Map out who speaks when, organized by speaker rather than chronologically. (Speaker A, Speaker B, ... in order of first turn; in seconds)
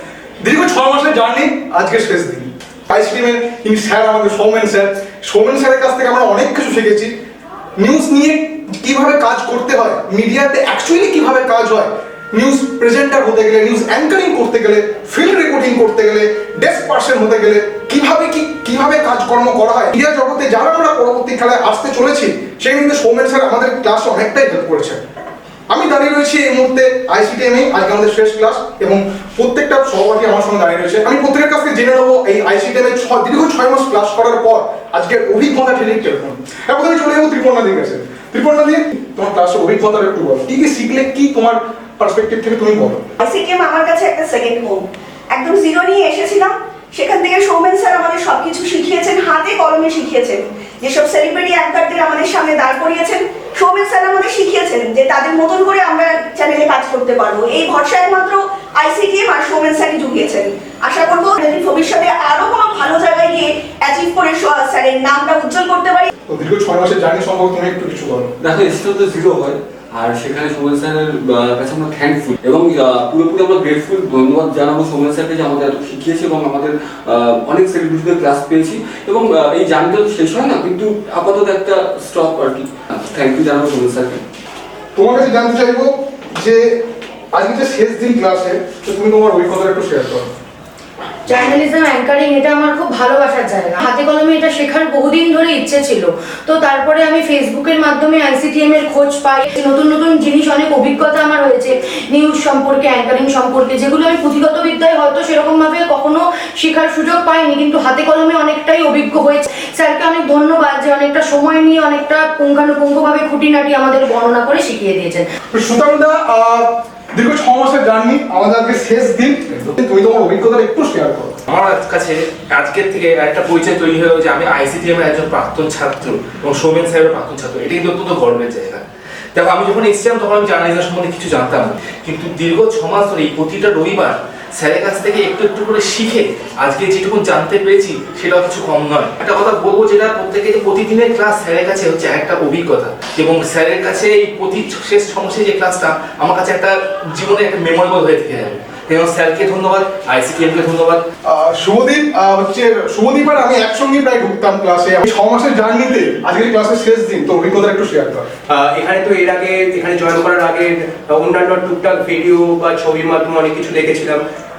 Speaker A: 0.4-7.1, 7.8-25.0, 25.7-43.1, 66.3-68.3, 85.0-86.8, 87.3-90.3, 115.5-121.4, 151.3-158.3
Speaker B: 43.2-66.1
Speaker C: 68.4-84.2
Speaker D: 91.3-115.2
Speaker E: 121.5-128.8, 129.3-151.0
Speaker F: 158.5-164.2